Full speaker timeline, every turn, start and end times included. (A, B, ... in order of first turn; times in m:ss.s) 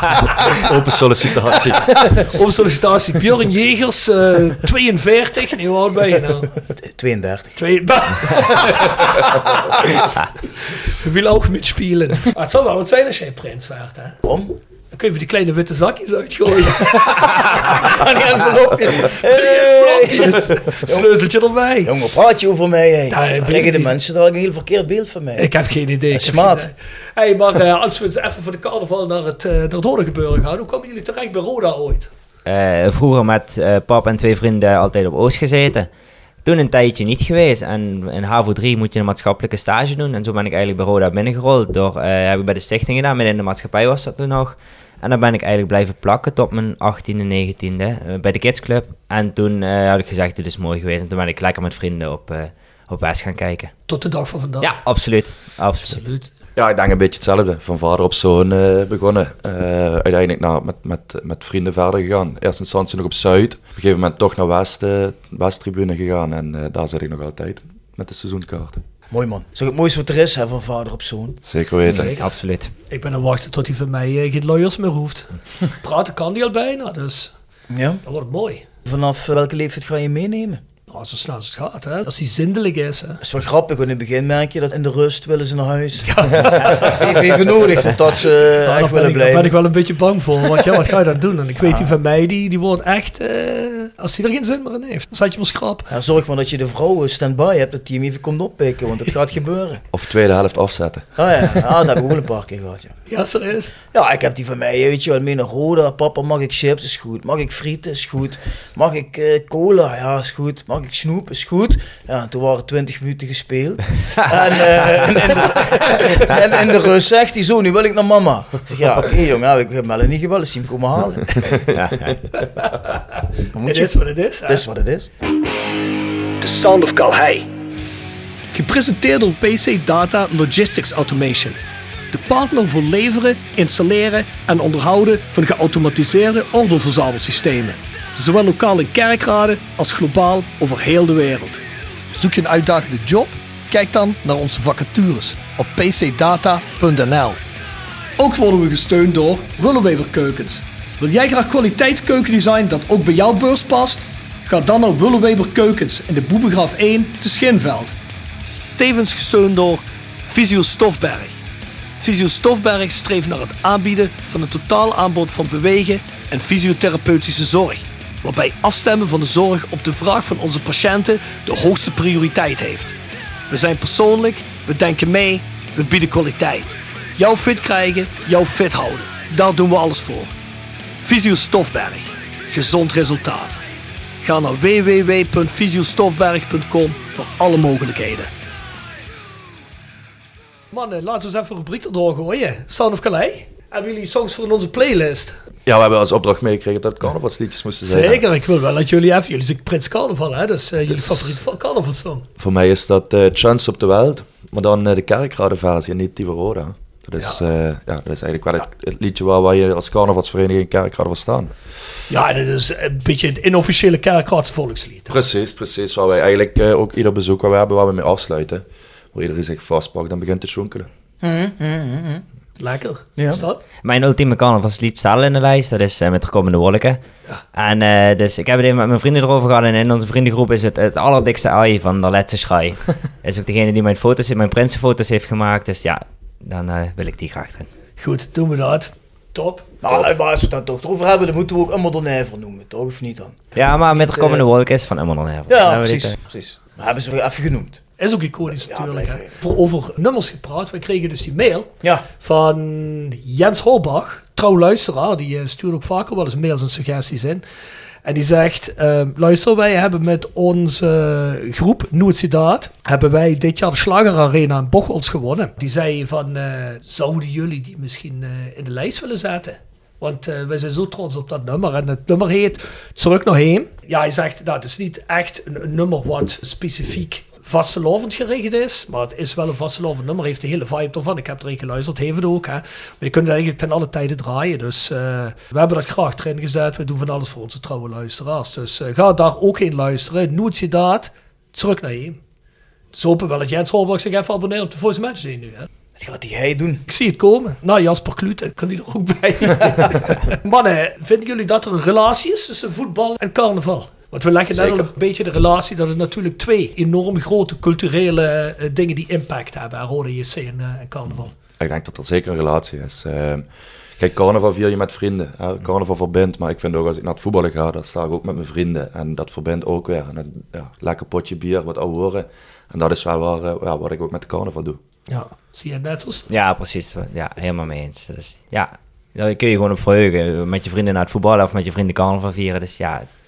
0:00.4-0:02.2 A
0:02.1-0:06.5 B
0:06.7-0:07.6 C
0:07.6-0:10.0 B
0:08.3-0:10.0 C
0:10.8-0:14.2 B
0:14.2-0:14.6 C
0:14.9-0:17.9 B
0:17.0-0:21.2 C
0:19.0-0:21.9 B
0:21.8-0:25.5 C
0:23.1-0:24.0 B
0:25.4-0:32.1 B
0:26.1-0:26.7 C
0:32.5-0:35.9 D
0:36.4-0:53.7 D
0:53.9-0:54.8 B
0:54.6-0:56.0 D
0:55.8-0:56.3 B
0:56.6-1:08.8 A
1:09.1-1:11.4 C
1:11.4-1:12.2 A
1:11.8-1:12.7 D
1:11.9-1:12.3 B
1:12.9-1:17.3 B
1:17.7-1:18.0 C
1:18.0-1:18.6 B
1:18.9-1:20.6 C
1:20.9-1:23.2 B
1:23.2-1:29.6 C
1:26.1-1:27.1 B
1:28.6-1:35.9 B
1:31.6-1:31.9 C
1:35.9-1:39.8 C
1:39.9-1:41.1 A
1:41.2-1:43.0 C
1:43.1-1:43.7 B
1:43.9-2:01.6 C
2:02.4-2:03.0 B
2:03.5-2:05.1 C
2:03.6-2:04.6 B
2:06.4-2:07.5 B
2:08.5-2:11.6 B
2:12.1-2:21.6 B
2:22.1-2:27.4 B
2:28.2-2:38.0 B
2:38.8-2:41.3 B
2:42.0-2:53.0 B
2:53.5-3:00.3 B
3:01.0-3:03.6 B
3:04.2-3:08.3 B
3:10.7-3:15.4 B
3:15.7-3:18.2 A
3:17.9-3:22.2 B
3:20.9-3:21.3 A
3:22.4-3:31.5 A
3:32.1-3:35.2 B
3:35.1-3:40.9 A
3:41.2-3:42.2 C
3:42.6-3:43.6 B
3:43.2-3:43.4 C
3:43.8-3:47.0 D
3:47.5-3:57.7 D
3:58.0-3:59.7 B
3:59.8-4:04.5 C
4:03.6-4:06.2 D
4:05.5-4:07.8 C
4:08.0-4:17.4 B
4:08.5-4:09.4 C
4:18.0-4:52.2 B
4:52.9-4:55.7 B
4:56.0-4:56.8 C
4:56.9-5:11.3 B
5:04.5-5:04.9 A
5:11.6-5:13.5 A
5:14.0-5:24.8 A
5:25.1-5:26.3 B
5:26.3-5:33.1 D